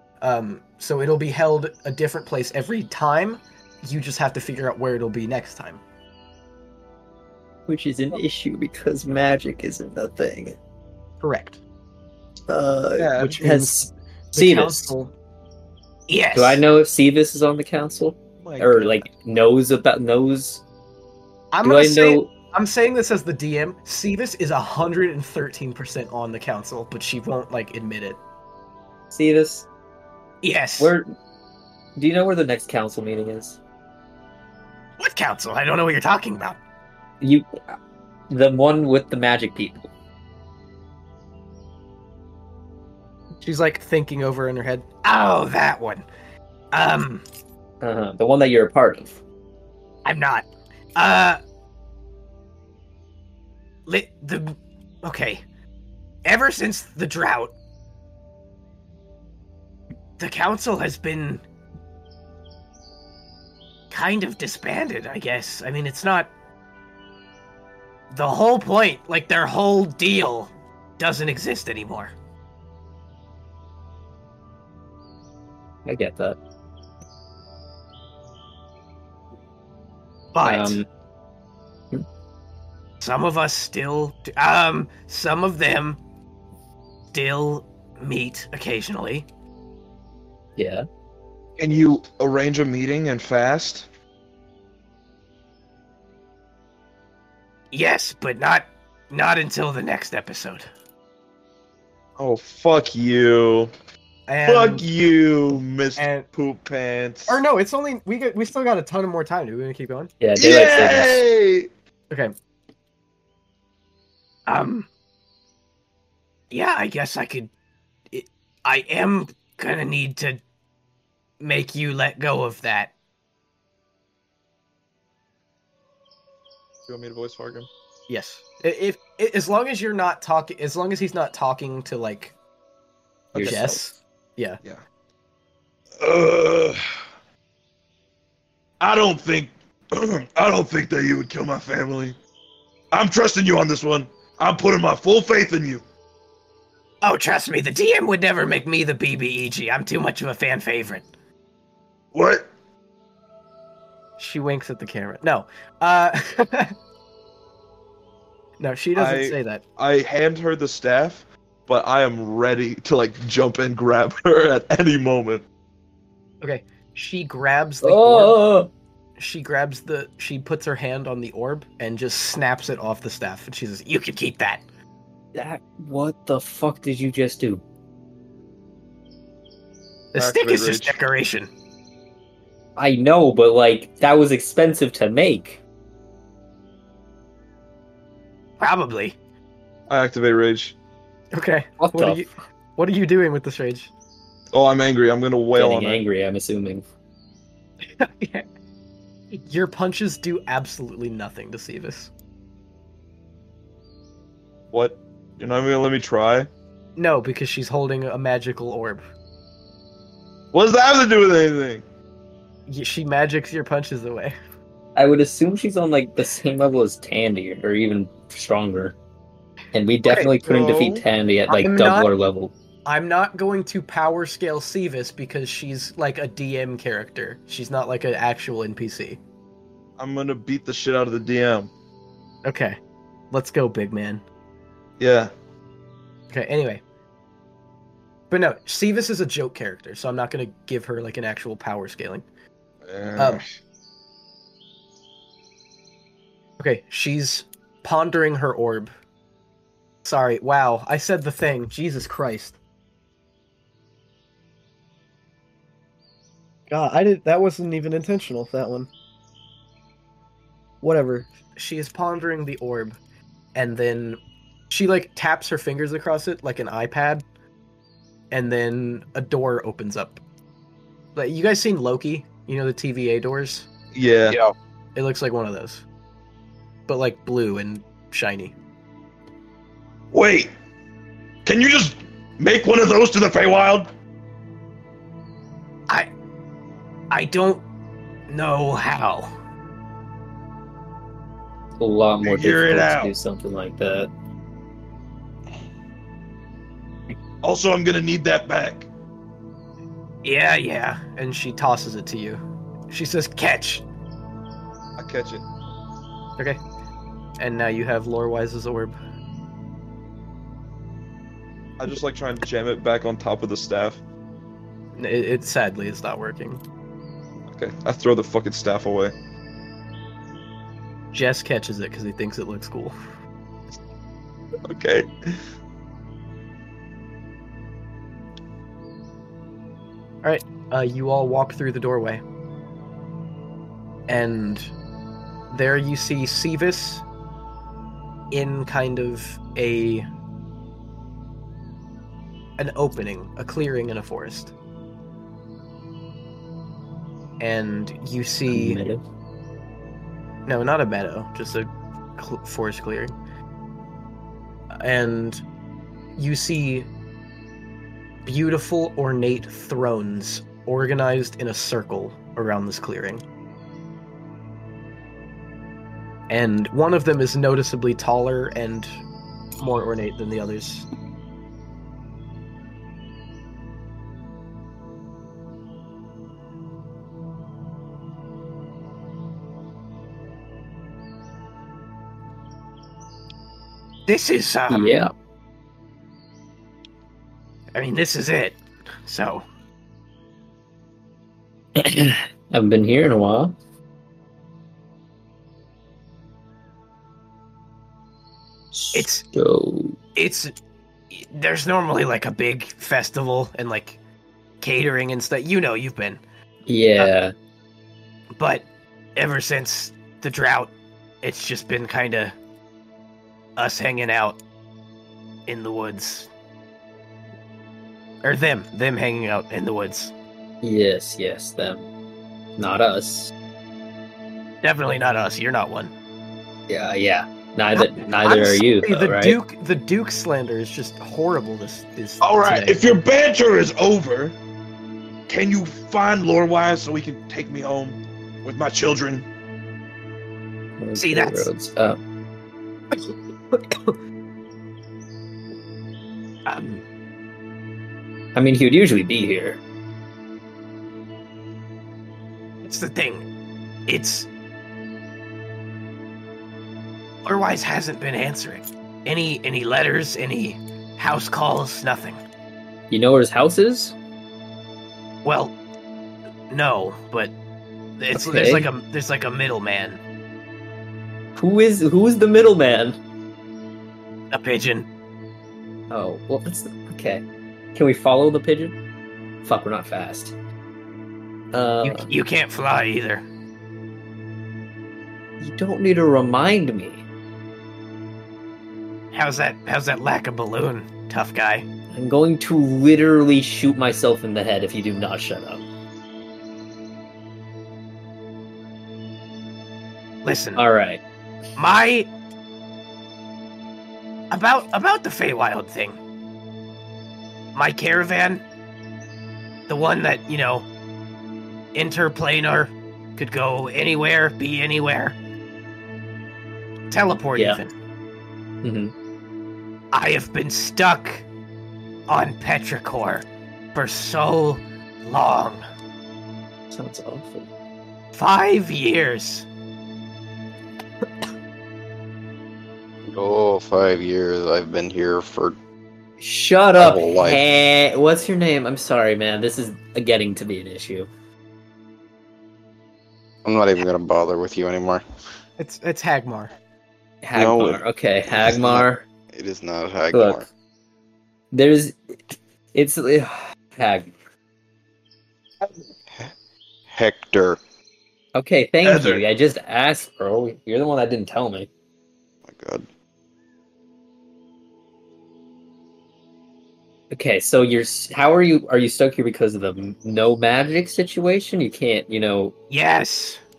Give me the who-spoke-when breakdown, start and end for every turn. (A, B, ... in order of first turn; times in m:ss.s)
0:00.2-0:05.8 A
0:07.7-0:10.6 B
0:11.2-0:11.6 A
0:12.5-0:14.9 B
0:13.0-0:13.4 C
0:13.2-0:15.1 A
0:16.1-0:16.6 A
0:16.3-0:20.6 B
0:18.4-0:19.0 C
0:21.5-0:28.2 A
0:21.6-0:22.3 B
0:29.1-0:29.7 B
0:30.4-0:30.9 A
0:30.8-0:31.1 B
0:32.0-0:33.6 B
0:35.0-0:36.6 A
0:37.2-0:37.7 B
0:38.3-0:39.9 B
0:43.4-0:46.0 A
0:46.7-0:47.2 A
0:47.8-0:49.2 B
0:50.0-0:51.4 A
0:53.8-0:55.4 A
0:56.2-0:57.5 A
1:00.2-1:01.4 A
1:03.9-1:06.3 A
1:08.1-1:12.1 A
1:15.8-1:16.4 B
1:20.3-1:20.7 A
1:20.4-1:20.9 B
1:23.0-1:26.0 A
1:27.1-1:29.3 A
1:30.6-1:30.8 B
1:31.6-1:33.9 C
1:37.7-1:40.7 A
1:42.2-1:43.7 C
1:44.3-1:44.8 A
1:44.4-1:47.4 C
1:46.0-1:46.2 A
1:47.3-1:50.1 A
1:50.2-1:51.2 B
1:50.4-1:51.7 C
1:54.5-1:54.9 A
1:56.5-1:57.5 A
1:58.1-2:00.4 A
2:01.4-2:02.9 A
2:06.9-2:07.7 C
2:08.1-2:12.3 A
2:13.3-2:13.7 C
2:13.3-2:14.6 A
2:13.4-2:13.8 B
2:16.0-2:16.8 C
2:18.8-2:22.2 C
2:22.9-2:25.8 C
2:27.0-2:31.0 A
2:32.1-2:32.5 C
2:34.2-2:36.7 A
2:38.6-2:39.6 A
2:38.9-2:45.4 C
2:46.4-2:48.4 A
2:47.8-2:48.7 B
2:49.2-2:54.6 A
2:55.3-2:57.6 B
3:00.1-3:01.5 A
3:00.2-3:01.0 C
3:02.8-3:05.6 B
3:08.6-3:09.2 A
3:09.9-3:10.8 C
3:11.3-3:13.9 A
3:11.8-3:12.2 B
3:14.5-3:16.0 C
3:15.6-3:16.8 B
3:18.0-3:18.4 A
3:19.3-3:22.1 A
3:24.7-3:26.5 C
3:27.0-3:29.0 A
3:30.5-3:31.8 C
3:32.7-3:34.3 A
3:34.9-3:39.0 B
3:39.7-3:42.5 B
3:40.4-3:41.0 C
3:41.5-3:42.1 A
3:42.8-3:49.2 A
3:50.0-3:51.7 C
3:52.4-3:52.8 A
3:53.3-3:54.2 A
3:55.0-3:55.3 C
3:56.3-3:56.8 A
3:58.3-4:02.2 A
4:02.9-4:03.4 C
4:03.2-4:03.4 A
4:06.6-4:08.9 A
4:10.0-4:12.6 A
4:16.7-4:18.9 A
4:20.8-4:23.0 A
4:23.5-4:27.2 A
4:28.3-4:30.2 A
4:31.1-4:33.7 A
4:33.9-4:34.4 C
4:34.3-4:34.5 D
4:34.9-4:35.8 A
4:36.9-4:38.5 A
4:40.1-4:40.5 C
4:41.4-4:43.9 C
4:47.1-4:47.6 A
4:48.3-4:49.3 A
4:51.8-4:54.1 B
4:52.2-4:53.1 C
4:57.4-4:58.9 C
5:00.2-5:03.8 A
5:05.0-5:05.4 C
5:07.4-5:09.0 A
5:11.8-5:14.0 C
5:14.9-5:16.6 A
5:17.5-5:19.1 C
5:21.1-5:22.9 A
5:24.7-5:25.3 C
5:30.2-5:32.2 A
5:34.1-5:34.7 A
5:35.5-5:37.0 A
5:38.3-5:40.0 A
5:42.6-5:44.5 A
5:47.4-5:48.8 A
5:48.5-5:49.0 B
5:50.4-5:53.1 A
5:54.8-5:55.4 A
5:56.2-5:56.9 A
5:58.2-6:03.2 A
6:06.3-6:08.9 A
6:09.6-6:10.9 A
6:24.1-6:25.0 A
6:24.7-6:25.1 B
6:27.7-6:29.4 A
6:31.8-6:33.5 B
6:38.7-6:40.0 B
6:38.9-6:39.2 A
6:40.1-6:40.5 A
6:41.1-6:44.0 A
6:44.6-6:46.2 A
6:46.7-6:47.3 B
6:48.4-6:48.6 A
6:49.2-6:52.3 A
6:53.6-6:54.4 A
6:55.5-6:56.3 A
6:58.2-7:00.1 A
7:00.6-7:01.8 B
7:02.6-7:03.3 B
7:04.6-7:05.9 A
7:06.7-7:09.4 B
7:07.7-7:12.9 A
7:12.2-7:14.3 C
7:15.3-7:19.3 C
7:20.8-7:22.0 B
7:21.0-7:21.5 A
7:22.9-7:23.9 A
7:26.4-7:26.8 A
7:28.3-7:29.6 B
7:32.6-7:33.2 A
7:33.9-7:34.3 A
7:37.2-7:42.2 A
7:42.9-7:43.9 B
7:45.2-7:45.5 A
7:46.5-7:47.3 A
7:48.0-7:50.0 A
7:48.1-7:48.7 B
7:51.4-7:53.0 B
7:54.3-7:54.9 A
7:55.9-7:58.8 B
7:59.4-8:00.4 B
8:01.5-8:02.1 B
8:01.8-8:03.2 A
8:05.4-8:07.0 B
8:09.1-8:11.7 A
8:11.9-8:15.6 B
8:20.2-8:20.6 A
8:20.6-8:21.0 B
8:21.6-8:22.1 A
8:24.3-8:26.0 A
8:27.5-8:28.4 A
8:29.7-8:30.6 A
8:31.7-8:35.2 A
8:36.9-8:37.7 A
8:37.3-8:37.6 B
8:38.6-8:38.9 B
8:39.9-8:41.2 A
8:42.1-8:45.6 A
8:46.7-8:47.5 B
8:48.1-8:49.5 A
8:53.1-8:55.6 D
8:56.2-9:01.1 B
8:56.8-8:57.4 D
9:03.4-9:05.0 D
9:05.6-9:06.5 A
9:07.2-9:09.0 B
9:07.3-9:10.4 D
9:10.1-9:10.4 B
9:11.5-9:14.1 B
9:16.9-9:17.6 D
9:18.3-9:21.7 B
9:18.8-9:19.2 C
9:22.5-9:22.8 D
9:27.1-9:32.5 B
9:32.7-9:33.4 A